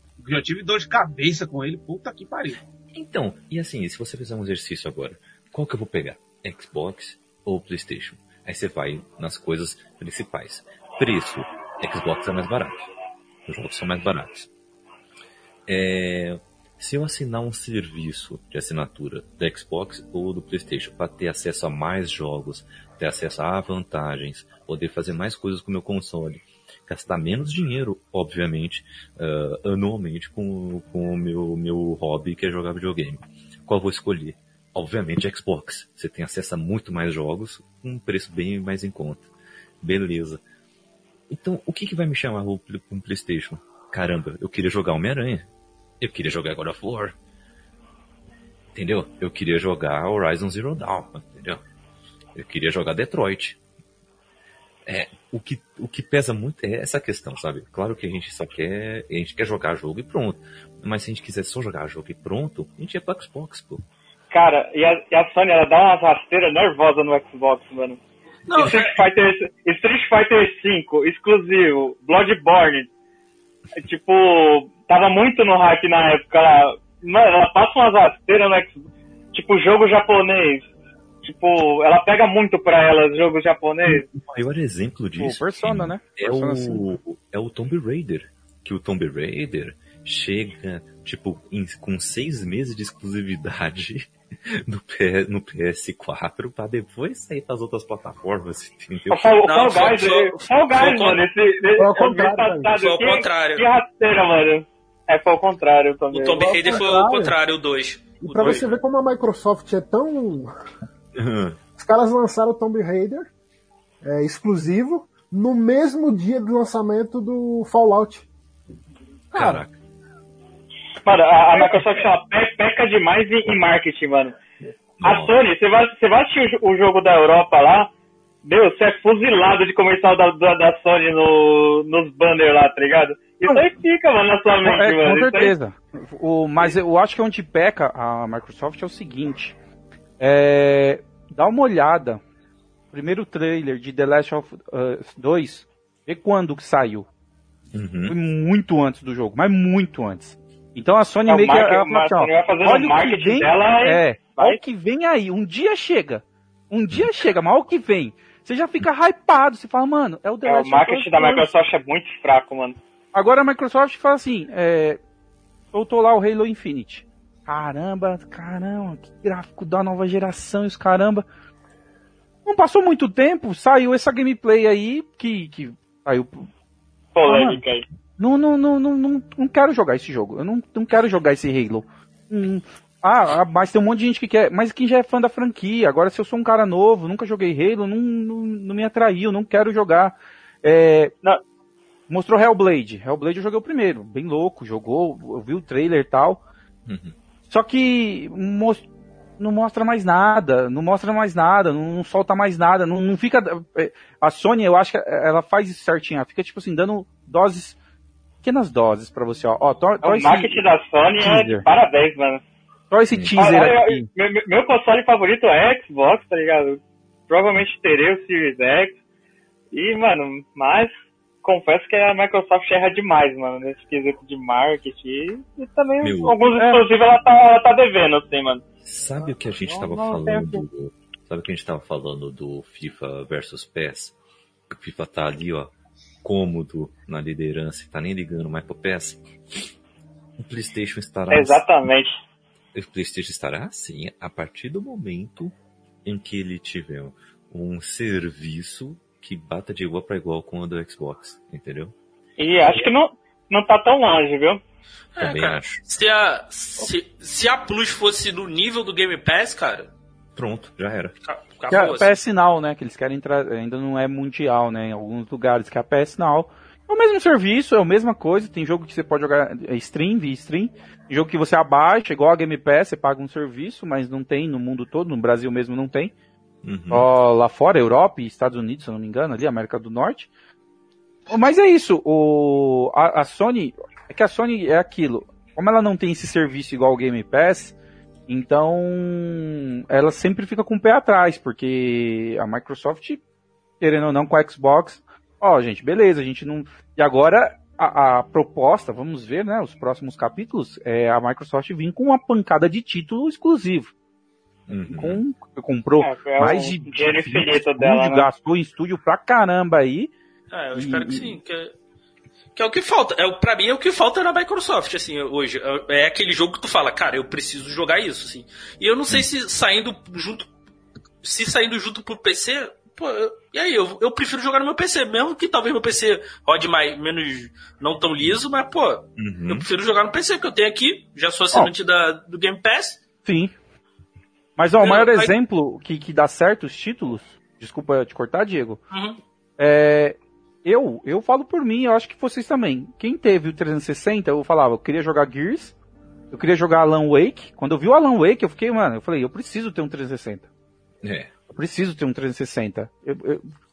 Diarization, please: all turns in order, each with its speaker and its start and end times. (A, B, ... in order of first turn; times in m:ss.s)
0:00.2-0:02.6 A
0:02.9-0:12.9 B
0:13.5-0:14.5 B
0:15.7-0:39.3 B
0:39.8-0:40.4 B
0:41.3-0:45.5 B
0:46.0-0:47.2 B
0:48.7-0:51.6 B
0:52.3-0:53.6 B
0:54.8-1:03.8 B
1:04.3-1:08.0 C
1:08.5-1:09.0 D
1:08.6-1:12.9 C
1:13.7-1:20.6 C
1:21.2-1:24.0 C
1:23.8-1:39.4 B
1:25.2-1:26.9 E
1:39.1-1:46.8 C
1:39.4-1:41.2 D
1:41.8-1:42.7 F
1:42.7-1:43.7 D
1:46.1-1:48.7 D
1:46.4-1:47.3 F
1:48.2-1:50.5 F
1:51.2-1:51.6 B
1:51.8-1:53.3 F
1:54.0-1:58.3 F
1:59.3-1:59.7 B
1:59.3-1:59.6 E
2:01.0-2:04.4 C
2:05.0-2:05.3 B
2:05.0-2:07.9 C
2:08.4-2:15.5 C
2:14.6-2:19.5 E
2:20.2-2:22.2 E
2:22.9-2:27.1 E
2:27.7-2:28.2 B
2:28.1-2:41.5 E
2:31.3-2:34.6 C
2:40.4-2:42.8 C
2:43.1-2:45.0 E
2:45.7-2:51.2 E
2:52.4-2:56.5 E
2:57.1-2:57.8 C
2:57.2-2:57.6 E
2:58.2-3:11.1 E
3:12.1-3:16.4 E
3:16.8-3:17.1 B
3:17.5-3:18.8 E
3:19.4-3:27.8 E
3:28.4-3:30.6 E
3:30.0-3:32.4 C
3:31.2-3:31.6 E
3:32.9-3:34.1 E
3:33.1-3:33.5 B
3:33.4-3:38.9 C
3:39.7-3:40.9 C
3:41.4-3:48.6 C
3:46.0-3:46.4 B
3:46.5-3:46.8 E
3:48.8-3:54.1 B
3:49.6-3:50.6 C
3:54.7-3:59.7 B
4:00.4-4:01.8 B
4:01.3-4:02.1 C
4:02.7-4:05.5 B
4:06.0-4:11.9 B
4:12.4-4:14.6 C
4:15.2-4:19.9 D
4:15.2-4:15.8 B
4:20.4-4:21.1 B
4:21.2-4:22.1 D
4:21.7-4:36.1 E
4:36.6-4:37.1 B
4:36.9-4:40.3 E
4:41.3-4:47.7 E
4:48.3-4:53.2 E
4:53.8-5:03.9 E
5:04.7-5:05.2 B
5:04.9-5:10.1 E
5:06.0-5:08.3 C
5:10.5-5:11.7 D
5:10.7-5:11.4 E
5:12.6-5:20.5 D
5:21.2-5:33.0 D
5:29.2-5:29.7 B
5:33.2-5:33.5 E
5:34.6-5:38.8 E
5:34.8-5:35.3 D
5:38.9-5:39.2 D
5:39.6-5:45.7 E
5:46.3-5:50.5 E
5:51.0-5:51.3 B
5:51.5-5:53.4 E